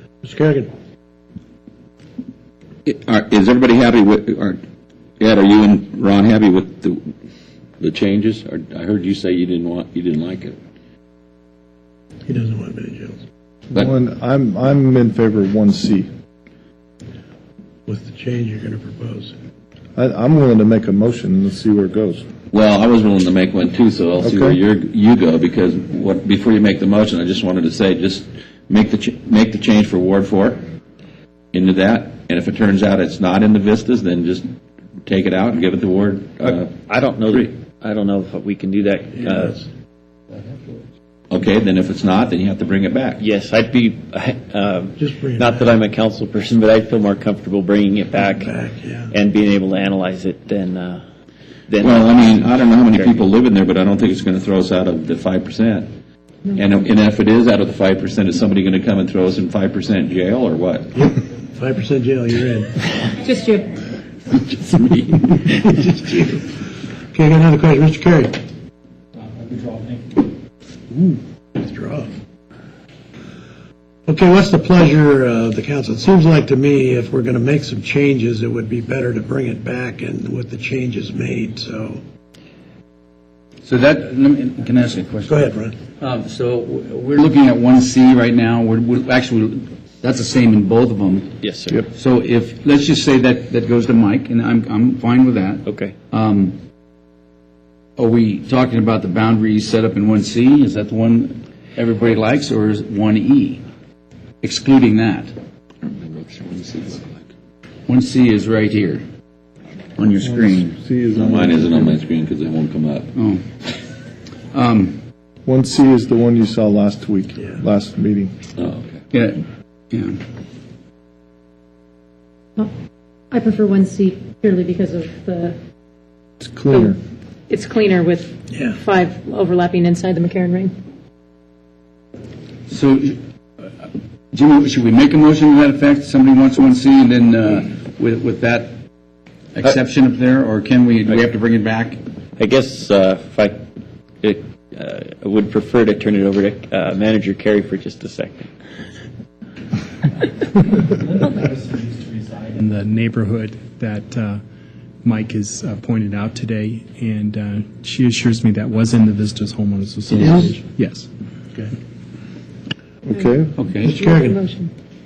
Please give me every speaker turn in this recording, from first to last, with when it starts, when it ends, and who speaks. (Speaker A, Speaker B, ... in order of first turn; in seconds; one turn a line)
Speaker A: 0.2-0.7
Speaker B: 2.8-4.6
Speaker B: 5.2-7.1
Speaker B: 7.8-10.6
Speaker A: 12.3-13.2
Speaker C: 13.7-16.1
Speaker A: 17.9-19.3
Speaker C: 20.0-22.2
Speaker B: 22.5-30.6
Speaker C: 24.2-24.6
Speaker B: 31.5-34.5
Speaker B: 35.0-36.7
Speaker D: 36.4-39.6
Speaker B: 41.3-43.2
Speaker D: 43.2-48.5
Speaker A: 45.0-45.7
Speaker A: 48.3-49.1
Speaker D: 49.1-51.0
Speaker D: 51.7-53.2
Speaker B: 51.8-55.9
Speaker B: 56.5-60.9
Speaker A: 60.9-62.8
Speaker E: 63.2-63.8
Speaker A: 65.3-66.5
Speaker A: 67.1-68.4
Speaker F: 69.3-70.1
Speaker A: 70.9-72.1
Speaker A: 74.1-82.0
Speaker G: 83.7-85.4
Speaker A: 85.3-85.8
Speaker G: 86.0-91.3
Speaker D: 91.4-91.8
Speaker G: 91.9-96.6
Speaker D: 95.7-96.0
Speaker G: 98.0-103.6
Speaker G: 104.4-105.3
Speaker B: 105.8-107.2
Speaker G: 107.9-109.0
Speaker G: 110.0-110.8
Speaker C: 110.2-112.0
Speaker B: 111.2-113.1
Speaker G: 113.2-113.4
Speaker G: 114.5-115.0
Speaker C: 115.4-118.3
Speaker B: 118.6-119.0
Speaker G: 119.1-120.2
Speaker E: 123.3-125.6
Speaker C: 126.4-127.0
Speaker E: 126.7-127.0
Speaker E: 127.5-130.7
Speaker G: 132.7-133.2
Speaker G: 134.3-138.7
Speaker G: 139.6-142.0
Speaker D: 142.4-143.6
Speaker D: 144.2-148.5
Speaker F: 150.8-154.4
Speaker F: 155.0-161.1
Speaker A: 160.2-160.6
Speaker C: 163.1-163.6
Speaker E: 163.1-164.7
Speaker G: 163.6-163.9
Speaker A: 163.8-164.4